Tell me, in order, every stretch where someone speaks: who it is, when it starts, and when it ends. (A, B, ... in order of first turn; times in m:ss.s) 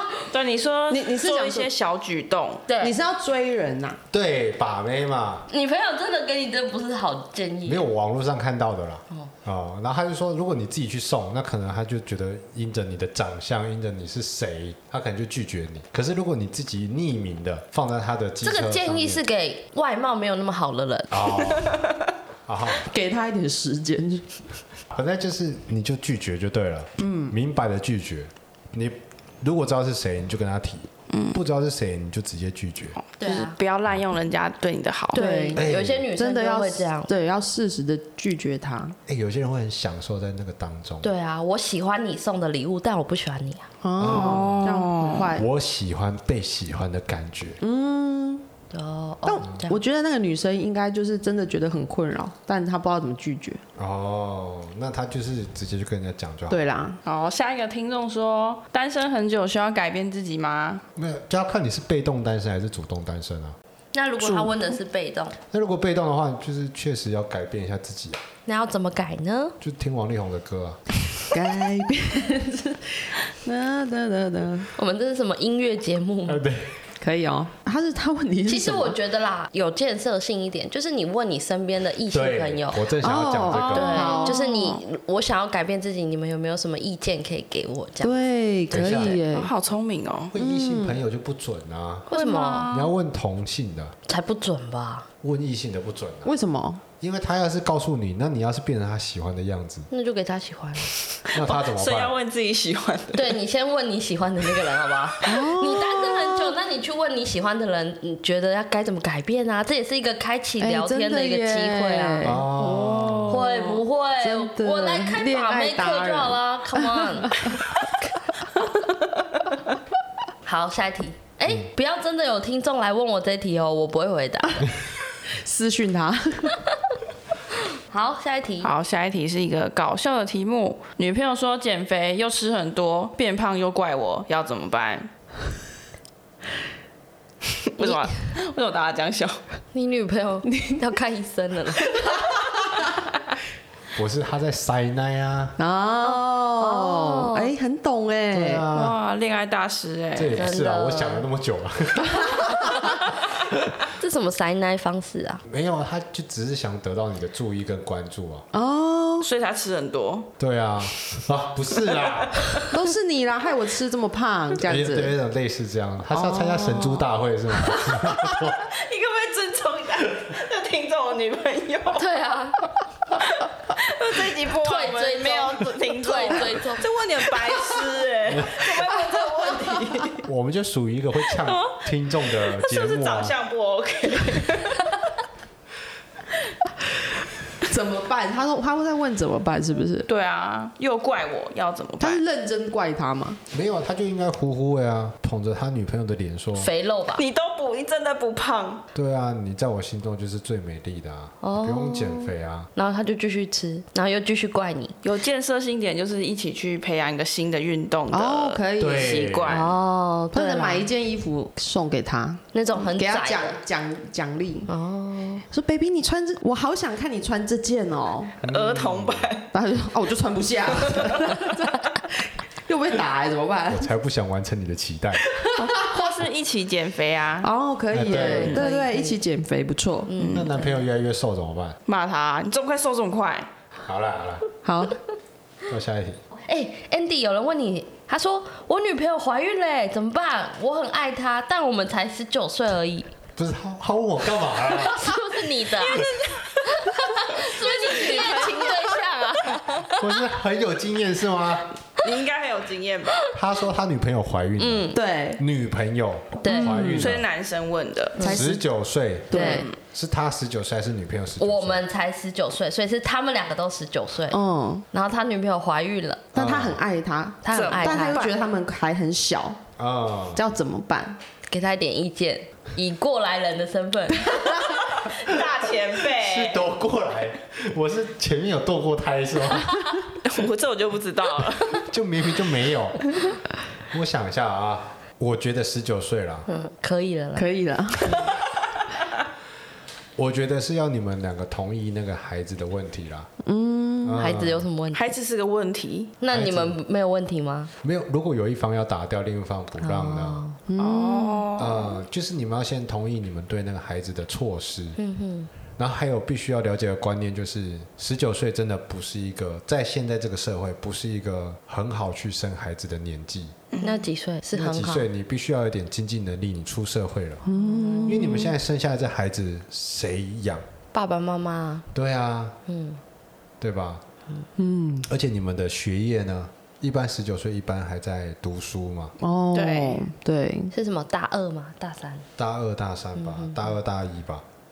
0:00.3-0:02.7 A
0:00.9-0:01.7 B
0:02.7-0:03.0 C
0:02.8-0:04.0 B
0:04.1-0:05.5 D
0:05.5-0:07.9 C
0:07.7-0:19.2 D
0:18.4-0:21.4 C
0:21.1-0:21.8 D
0:22.5-0:22.9 D
0:22.8-0:24.3 B
0:24.9-0:33.0 D
0:27.0-0:27.4 B
0:31.1-0:31.4 A
0:33.0-0:35.2 A
0:33.2-0:33.6 C
0:35.1-0:37.1 C
0:35.1-0:39.0 B
0:35.5-0:36.1 D
0:39.1-0:41.1 D
0:41.0-0:43.7 C
0:43.8-0:45.5 B
0:44.0-0:44.7 D
0:44.0-0:45.3 A
0:45.3-0:47.6 D
0:47.6-0:48.4 B
0:48.7-0:49.8 C
0:49.2-0:53.6 B
0:53.8-0:56.6 D
0:56.5-0:57.0 B
0:57.0-1:00.8 A
1:01.0-1:03.6 D
1:03.9-1:05.4 C
1:04.2-1:04.5 B
1:05.5-1:08.2 D
1:08.5-1:09.6 C
1:09.6-1:10.8 D
1:11.3-1:14.7 B
1:14.8-1:16.4 C
1:16.3-1:16.8 D
1:17.0-1:19.0 B
1:18.4-1:22.9 C
1:22.1-1:24.0 D
1:23.0-1:24.4 B
1:23.5-1:24.8 A
1:23.7-1:28.1 C
1:28.0-1:29.5 B
1:28.7-1:29.2 D
1:28.7-1:29.2 C
1:29.3-1:30.3 A
1:30.3-1:32.1 D
1:30.4-1:31.0 B
1:32.1-1:32.7 C
1:32.1-1:32.9 A
1:32.7-1:33.9 D
1:34.1-1:35.1 C
1:35.2-1:36.3 D
1:36.2-1:36.8 B
1:37.0-1:39.9 D
1:39.9-1:40.9 C
1:41.3-1:43.3 A
1:41.3-1:42.2 D
1:43.1-1:52.4 C
1:45.2-1:46.6 B
1:50.6-1:53.2 B
1:52.2-1:53.4 D
1:52.6-1:53.8 A
1:53.3-1:57.4 C
1:54.2-1:57.7 B
2:00.4-2:04.7 C
2:05.3-2:06.6 B
2:07.9-2:08.7 C
2:08.6-2:15.1 A
2:17.8-2:19.4 A
2:17.8-2:18.3 C
2:19.7-2:22.0 C
2:20.5-2:20.8 B
2:22.0-2:22.7 B
2:23.9-2:25.6 D
2:25.6-2:28.6 B
2:26.0-2:27.5 C
2:28.3-2:29.0 D
2:28.7-2:30.4 A
2:30.2-2:32.8 D
2:30.4-2:31.3 C
2:32.1-2:32.9 B
2:34.0-2:35.4 C
2:35.5-2:38.5 D
2:38.5-2:39.3 B
2:39.2-2:40.3 A
2:40.4-2:42.5 D
2:41.9-2:42.6 A
2:42.7-2:45.1 B
2:44.6-2:48.6 D
2:46.1-2:47.1 B
2:47.9-2:52.1 A
2:52.0-2:52.6 C
2:53.4-3:00.3 A
2:54.6-2:56.9 C
2:58.3-2:58.6 D
2:58.8-2:59.7 B
3:00.2-3:03.4 D
3:01.3-3:01.8 A
3:02.4-3:05.0 A
3:07.6-3:10.1 B
3:10.1-3:12.2 A
3:12.0-3:13.4 B
3:13.5-3:16.7 D
3:16.6-3:17.2 C
3:17.2-3:18.8 A
3:18.9-3:22.7 D
3:21.4-3:25.0 C
3:25.0-3:29.7 A
3:28.1-3:29.2 B
3:28.8-3:29.6 D
3:29.5-3:30.9 C
3:30.3-3:34.7 B
3:32.5-3:33.6 C
3:34.7-3:35.4 C
3:35.5-3:38.4 B
3:38.4-3:39.3 D
3:38.5-3:39.5 A
3:39.5-3:43.9 B
3:40.9-3:41.3 A
3:43.7-3:45.2 D
3:45.3-3:46.1 B
3:45.6-3:47.5 A
3:47.4-3:50.2 B
3:47.9-3:48.6 D
3:48.0-3:49.2 C
3:48.3-3:48.7 A
3:50.1-3:50.8 C
3:50.2-3:50.5 A
3:50.3-3:51.8 D
3:51.9-3:53.5 A
3:53.8-3:54.4 D
3:54.6-3:55.0 B
3:55.7-3:56.2 D
3:56.4-4:03.1 C
4:03.4-4:05.1 D
4:04.8-4:06.1 C
4:05.7-4:09.8 A
4:06.6-4:10.0 C
4:10.0-4:11.7 D
4:12.0-4:13.2 A
4:13.3-4:17.3 D
4:14.6-4:15.0 C
4:14.9-4:15.4 B
4:16.4-4:16.9 C
4:16.5-4:17.1 B
4:16.6-4:18.2 A
4:18.2-4:18.6 B
4:18.2-4:21.8 D
4:19.3-4:19.7 B
4:19.3-4:19.6 C
4:19.3-4:19.8 A
4:21.4-4:24.4 C
4:24.3-4:24.8 B
4:24.9-4:26.3 C
4:26.3-4:29.6 B
4:26.4-4:26.8 D
4:27.4-4:28.3 C
4:27.5-4:28.4 A
4:29.8-4:30.4 D
4:30.4-4:31.2 B
4:31.5-4:34.8 C
4:34.6-4:36.7 A
4:36.1-4:40.0 D
4:40.2-4:41.8 A
4:41.8-4:43.1 D
4:43.9-4:46.5 D
4:46.5-4:47.5 C
4:47.4-4:48.3 B
4:50.2-4:53.3 D
4:53.4-4:54.3 B
4:54.0-4:54.7 D
4:54.2-4:55.1 C
4:54.9-4:56.1 A
4:56.2-4:57.7 C
4:56.3-4:56.8 D
4:57.8-5:00.4 D
4:59.8-5:00.6 C
5:00.7-5:01.5 B
5:00.8-5:02.0 A
5:01.6-5:05.0 D
5:05.0-5:05.5 C
5:05.8-5:13.6 D
5:13.7-5:14.0 A
5:13.8-5:15.1 C
5:14.5-5:17.4 D
5:17.4-5:18.5 B
5:17.6-5:18.4 C
5:18.0-5:20.6 D
5:20.9-5:21.9 C
5:21.9-5:22.6 D
5:22.7-5:23.0 C
5:23.6-5:24.0 D
5:24.6-5:25.1 B
5:25.1-5:29.2 D
5:29.2-5:30.7 B
5:29.5-5:30.1 A
5:30.7-5:32.2 C
5:32.4-5:34.4 D
5:33.2-5:33.7 C